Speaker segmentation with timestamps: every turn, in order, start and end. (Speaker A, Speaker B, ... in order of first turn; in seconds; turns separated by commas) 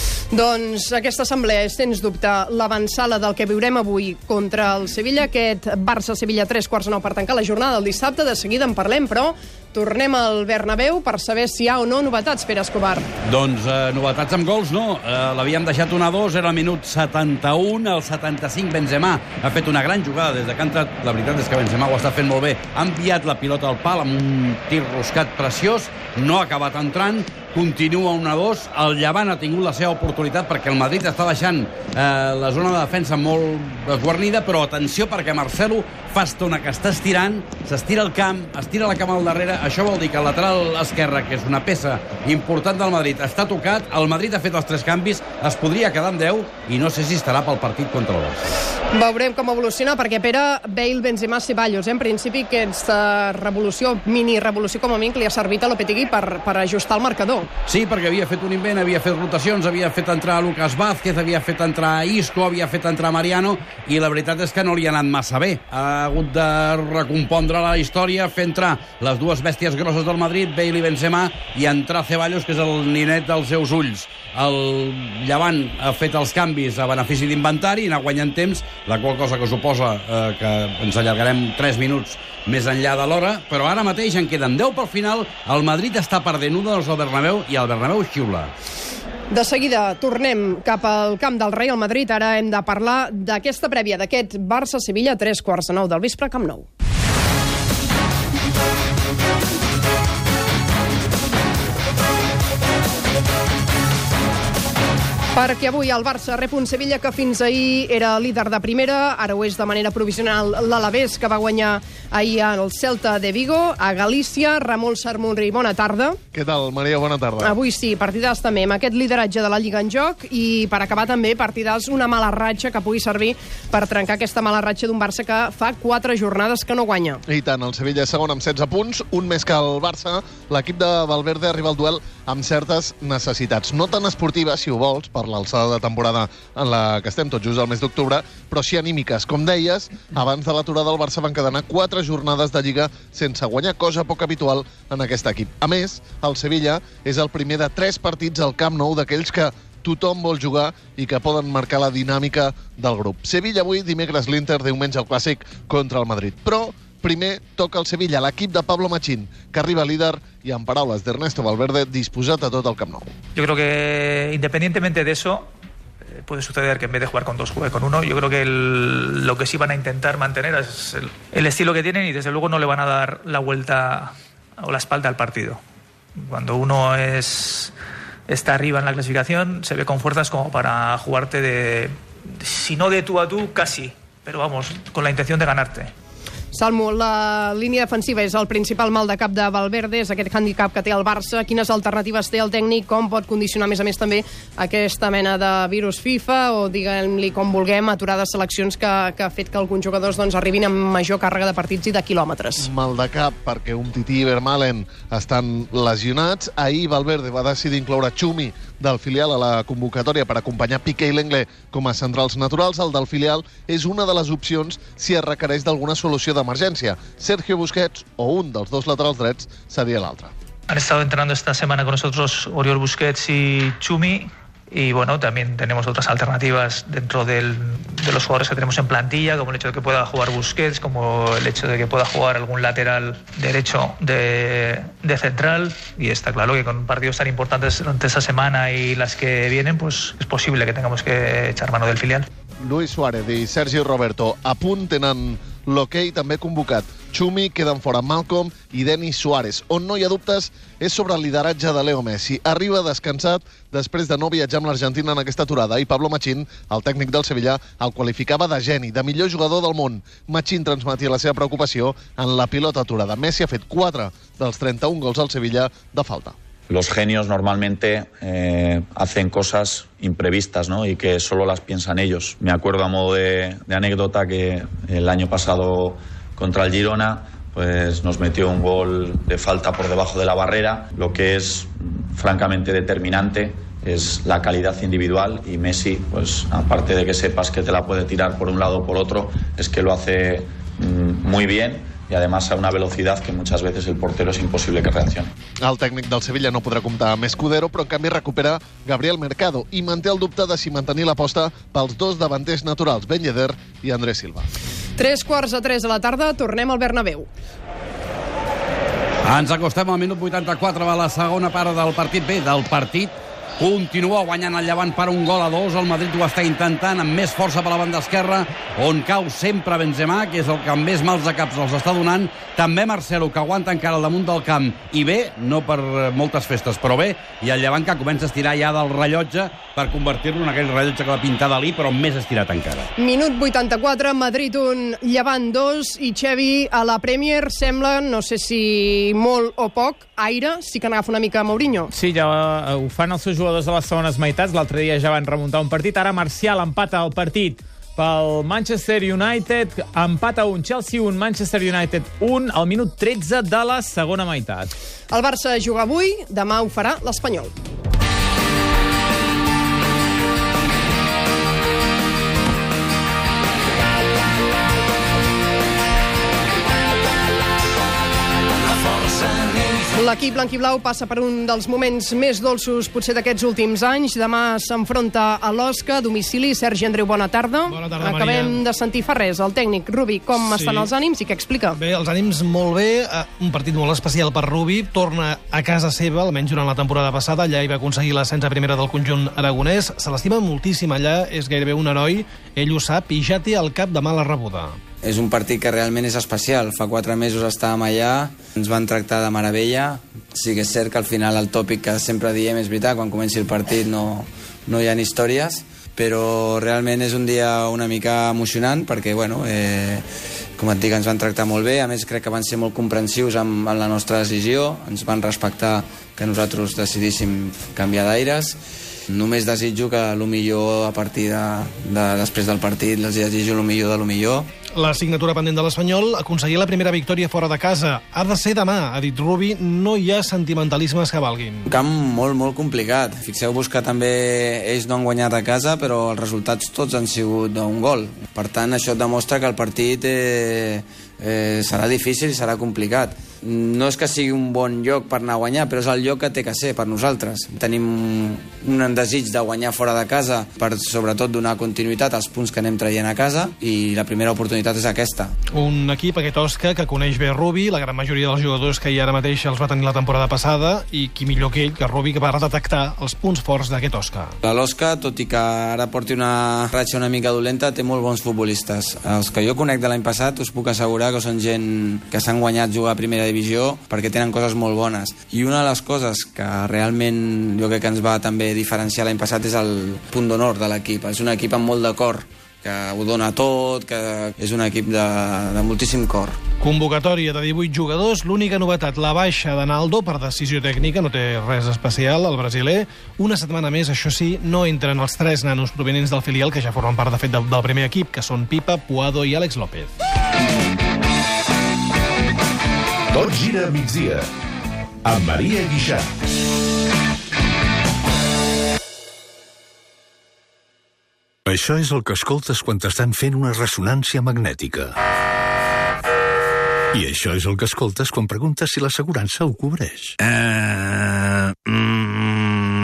Speaker A: 0.3-13.1, Speaker B: 13.2-48.5, Speaker A: 48.9-57.5, Speaker B: 57.7-88.5, Speaker A: 89.3-96.7, Speaker A: 105.3-116.2, Speaker C: 116.3-117.6, Speaker A: 117.4-127.2, Speaker C: 127.3-163.1, Speaker D: 163.3-165.5, Speaker D: 166.1-175.6, Speaker D: 176.2-177.7, Speaker D: 178.3-185.9, Speaker A: 186.5-202.7, Speaker C: 202.6-220.3, Speaker D: 220.7-242.3, Speaker C: 242.6-266.4, Speaker E: 266.7-295.3, Speaker C: 295.6-304.4, Speaker A: 305.0-307.3, Speaker B: 309.2-332.9, Speaker A: 333.0-341.9, Speaker F: 341.9-354.7, Speaker A: 355.1-357.5, Speaker A: 369.9-381.8, Speaker G: 377.7-378.6, Speaker G: 380.4-380.9, Speaker G: 381.7-394.8, Speaker H: 395.0-418.6, Speaker H: 419.1-424.5, Speaker G: 424.8-431.7, Speaker H: 431.7-455.3, Speaker G: 455.5-464.3, Speaker H: 464.4-486.4, Speaker G: 486.6-499.9, Speaker I: 503.1-504.2, Speaker I: 505.0-506.1, Speaker J: 511.5-514.9, Speaker J: 516.9-520.1, Speaker J: 521.6-522.6